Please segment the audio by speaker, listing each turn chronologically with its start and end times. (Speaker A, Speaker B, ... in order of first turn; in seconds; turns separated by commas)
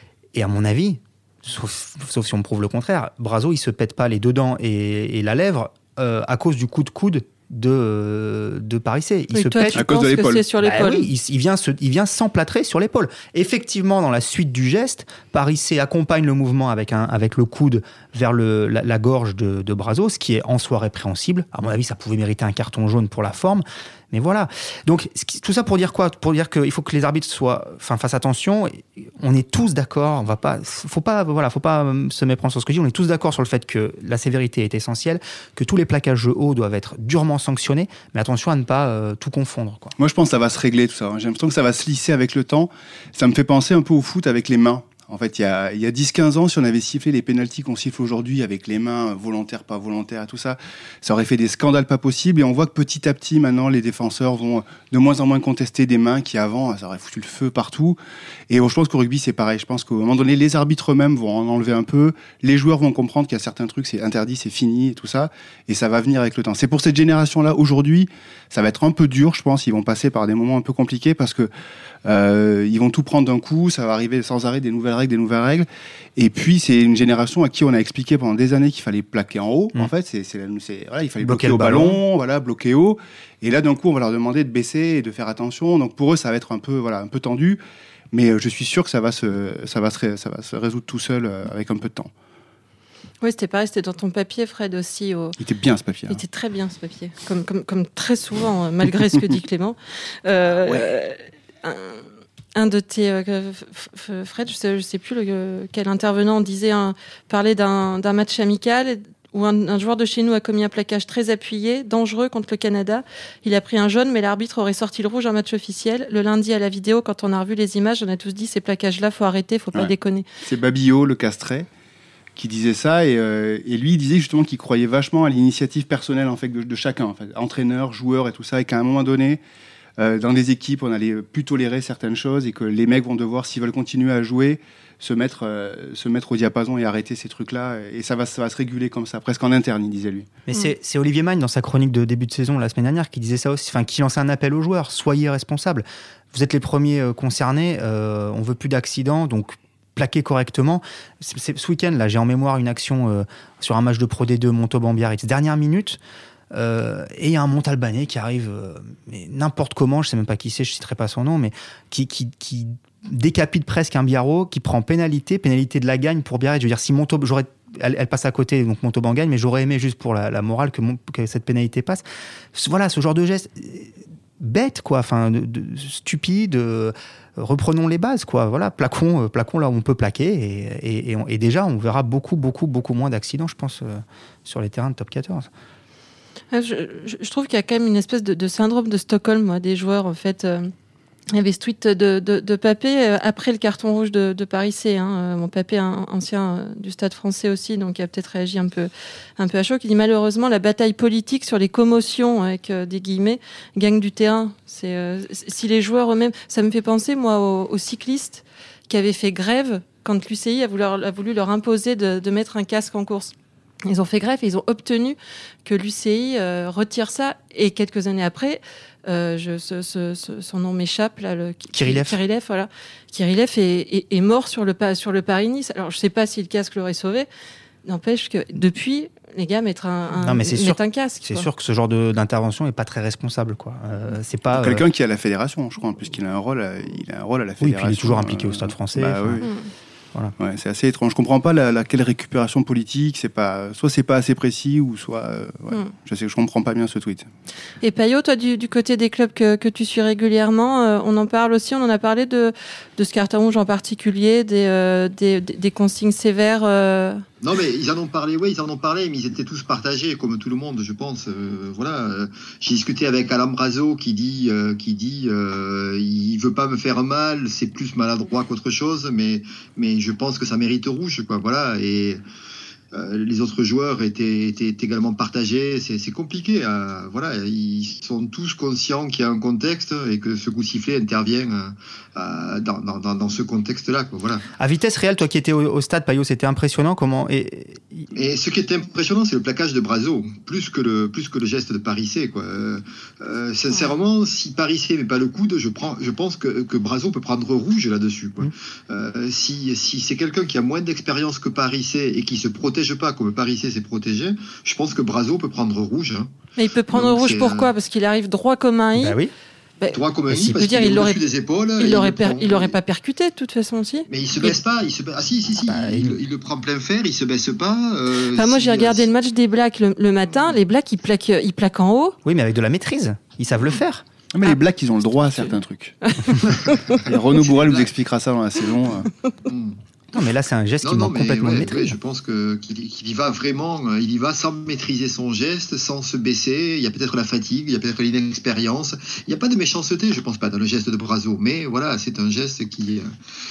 Speaker A: 0.3-9.8, Speaker B: 9.3-11.1, Speaker C: 9.7-10.4, Speaker A: 10.6-39.9, Speaker C: 40.0-58.0, Speaker C: 58.5-71.5, Speaker C: 72.0-87.6, Speaker A: 81.2-82.0, Speaker C: 88.1-92.1, Speaker B: 93.2-95.4, Speaker C: 95.4-96.2, Speaker B: 96.1-102.0, Speaker B: 102.5-120.2, Speaker C: 120.4-121.7, Speaker C: 122.3-129.4, Speaker C: 130.0-140.3, Speaker A: 140.5-156.0, Speaker A: 156.5-172.0, Speaker A: 172.5-185.5, Speaker B: 186.5-190.7, Speaker B: 191.3-213.3, Speaker B: 213.9-227.3, Speaker A: 221.7-222.2, Speaker B: 227.8-231.5, Speaker A: 230.2-234.8, Speaker C: 234.5-239.5, Speaker A: 237.6-239.4, Speaker B: 239.4-239.7, Speaker C: 240.4-247.3, Speaker B: 247.8-257.2, Speaker D: 257.4-272.2, Speaker D: 272.9-284.4, Speaker A: 284.6-288.1, Speaker D: 288.1-306.3, Speaker B: 306.6-309.1, Speaker D: 306.9-307.7, Speaker A: 308.9-309.3, Speaker D: 309.9-312.8, Speaker A: 310.3-310.6, Speaker B: 310.5-311.3, Speaker B: 311.8-314.1, Speaker D: 314.1-319.1, Speaker A: 315.6-316.2, Speaker B: 318.3-322.2, Speaker A: 322.2-324.0, Speaker C: 324.3-326.0, Speaker B: 325.4-327.0, Speaker C: 326.9-329.1, Speaker D: 327.6-327.9, Speaker D: 329.4-329.8, Speaker A: 330.1-331.9, Speaker D: 330.8-343.1